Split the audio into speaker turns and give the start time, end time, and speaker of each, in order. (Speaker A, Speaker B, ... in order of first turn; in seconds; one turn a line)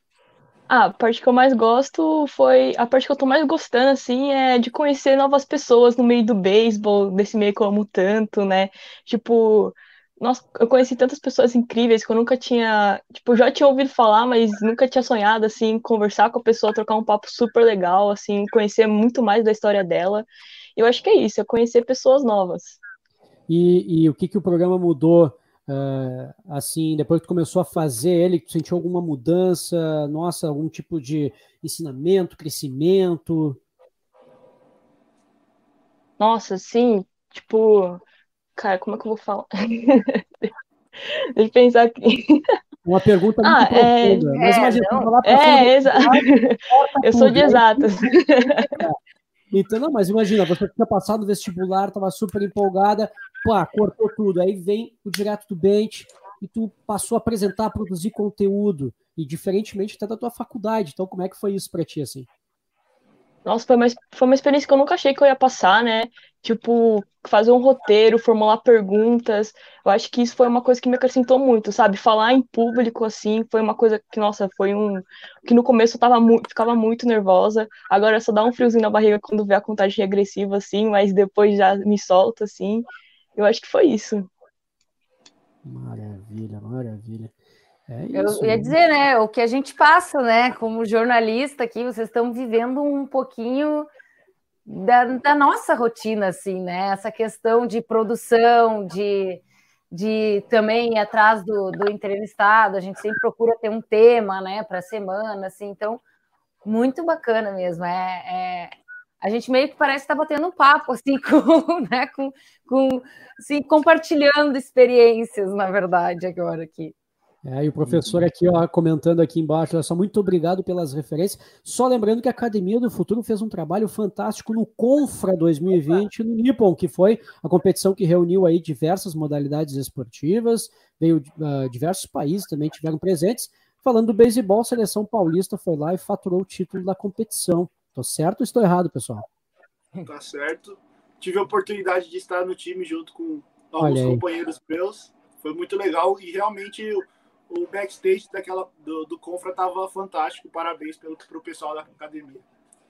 Speaker A: 0.7-22.8
Speaker B: 23.5-33.6
Speaker A: 36.2-38.0
Speaker A: 38.6-40.5
Speaker A: 41.0-42.5
Speaker B: 42.9-49.0
Speaker A: 43.4-44.3
Speaker C: 44.3-45.1
Speaker A: 45.2-48.9
Speaker B: 49.5-62.3
Speaker A: 63.5-82.8
Speaker A: 83.4-84.3
Speaker B: 85.7-87.3
Speaker B: 87.9-88.7
Speaker C: 88.1-93.9
Speaker C: 94.7-106.0
Speaker C: 106.7-116.9
Speaker B: 117.4-139.3
Speaker D: 140.1-152.4
Speaker B: 143.8-144.2